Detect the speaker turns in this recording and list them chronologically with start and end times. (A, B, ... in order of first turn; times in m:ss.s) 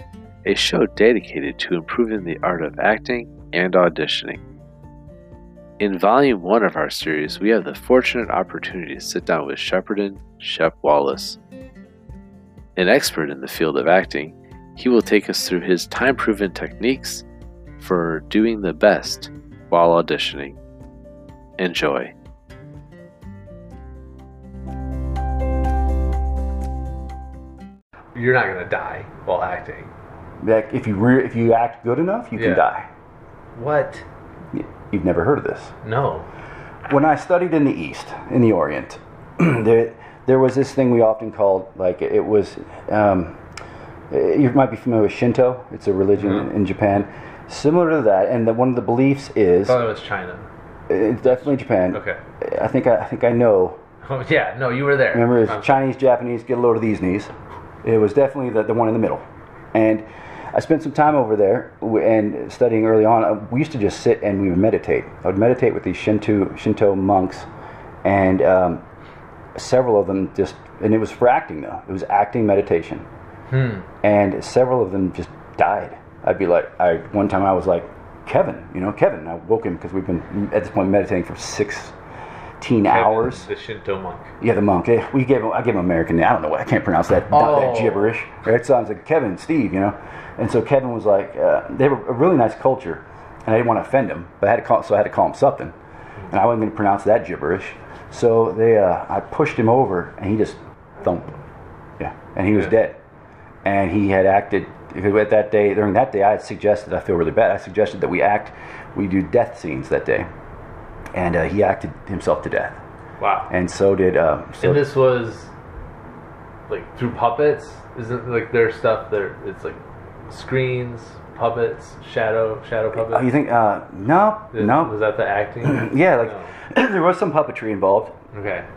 0:00.4-0:04.4 A
0:05.8-0:11.4 A
0:12.8-0:17.2 A
0:17.8-0:20.6 A
0:21.6-0:22.1 A
0:28.1-0:29.9 B
0:30.4-0:32.9 C
0:32.3-0:32.7 B
0:33.6-0:34.0 B
0:34.5-0:35.7 C
0:35.8-0:36.3 B
0:36.9-0:43.4 C
0:44.1-0:49.8 C
0:46.2-0:46.5 B
0:49.6-0:50.5 B
0:50.9-0:53.8 C
0:51.3-0:52.2 B
0:54.0-0:55.8 B
0:55.1-0:57.3 C
0:57.8-1:07.5 C
1:08.0-1:08.8 C
1:09.6-1:13.0 C
1:13.5-1:13.9 B
1:14.0-1:21.9 C
1:22.6-1:23.5 C
1:22.8-1:24.3 B
1:24.4-1:35.7 C
1:27.3-1:28.1 B
1:36.3-1:41.3 C
1:42.0-1:43.0 C
1:43.6-1:50.3 C
1:51.1-1:52.8 C
1:53.2-1:53.5 B
1:53.5-1:54.8 C
1:54.6-1:55.5 B
1:56.7-2:03.4 B
2:02.9-2:05.0 C
2:04.5-2:06.5 B
2:05.6-2:08.2 C
2:08.3-2:08.7 B